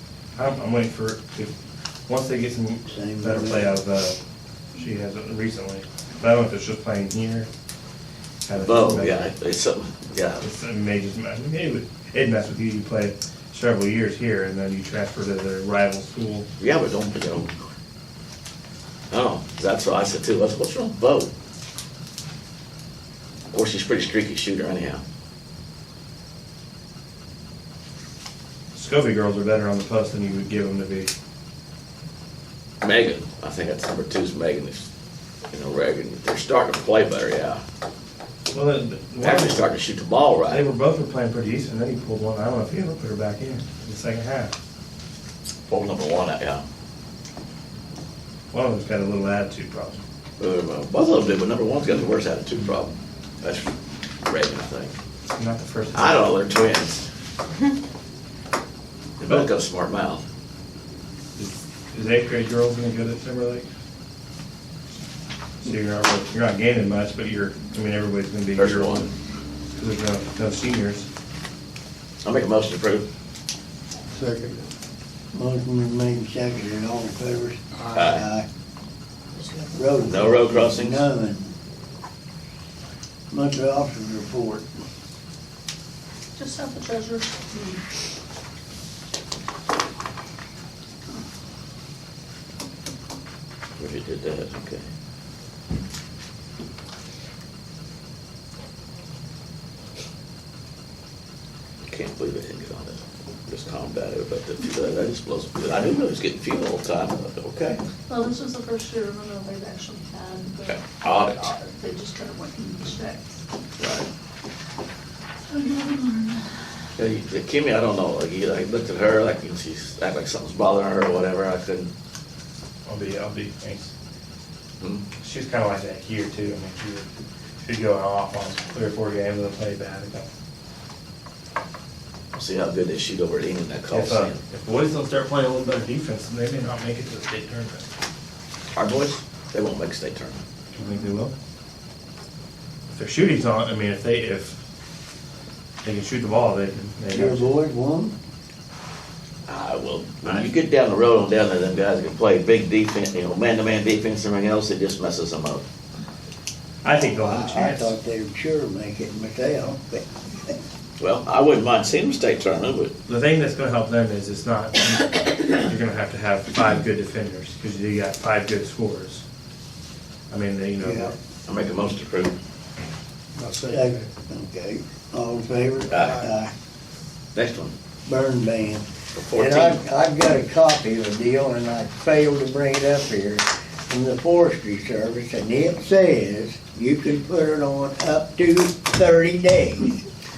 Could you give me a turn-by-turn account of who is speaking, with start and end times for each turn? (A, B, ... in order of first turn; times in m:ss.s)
0:00.4-0:01.5 A
0:02.1-0:04.2 A
0:02.9-0:03.7 B
0:04.8-0:07.5 A
0:08.4-0:09.3 A
0:08.6-0:10.4 C
0:10.4-0:16.5 A
0:16.6-0:17.6 C
0:19.1-0:21.3 C
0:23.5-0:25.0 C
0:28.8-0:31.1 A
0:32.8-0:34.9 C
0:35.5-0:37.6 C
0:38.5-0:39.7 A
0:39.2-0:40.6 C
0:40.5-0:44.5 A
0:45.7-0:46.6 C
0:48.5-0:50.0 A
0:50.4-0:53.7 C
0:54.2-0:55.0 C
0:55.4-0:56.3 A
0:55.9-0:57.1 C
0:59.2-1:00.2 C
1:01.4-1:03.7 A
1:05.6-1:09.1 A
1:08.6-1:09.1 C
1:09.8-1:11.1 A
1:12.2-1:13.1 C
1:14.1-1:14.7 D
1:15.3-1:18.5 B
1:17.8-1:18.0 D
1:17.9-1:18.2 C
1:19.7-1:21.5 B
1:20.0-1:21.1 C
1:23.3-1:24.7 B
1:26.4-1:27.8 E
1:33.8-1:34.9 C
1:41.8-1:47.8 C
1:48.1-1:53.4 E
1:50.7-1:51.5 C
1:53.8-1:54.1 C
1:55.5-1:56.4 E
1:57.0-2:01.9 C
2:02.9-2:03.9 A
2:04.8-2:05.1 C
2:05.1-2:07.1 A
2:07.6-2:10.3 A
2:12.3-2:14.4 C
2:13.9-2:17.9 A
2:18.7-2:20.4 C
2:20.7-2:21.3 A
2:22.9-2:24.6 A
2:25.8-2:27.5 A
2:27.1-2:28.1 B
2:29.5-2:35.6 C
2:36.8-2:38.0 A
2:37.0-2:40.5 B
2:41.0-2:43.0 C
2:43.1-2:49.2 A
2:50.3-2:51.2 A
2:50.8-2:51.1 B
2:51.5-2:52.3 C
2:53.4-2:54.1 D
2:53.7-2:56.5 B
2:55.9-2:56.3 C
2:56.0-2:56.3 D
2:57.4-2:57.8 C
2:58.1-3:10.0 B
2:59.2-2:59.8 C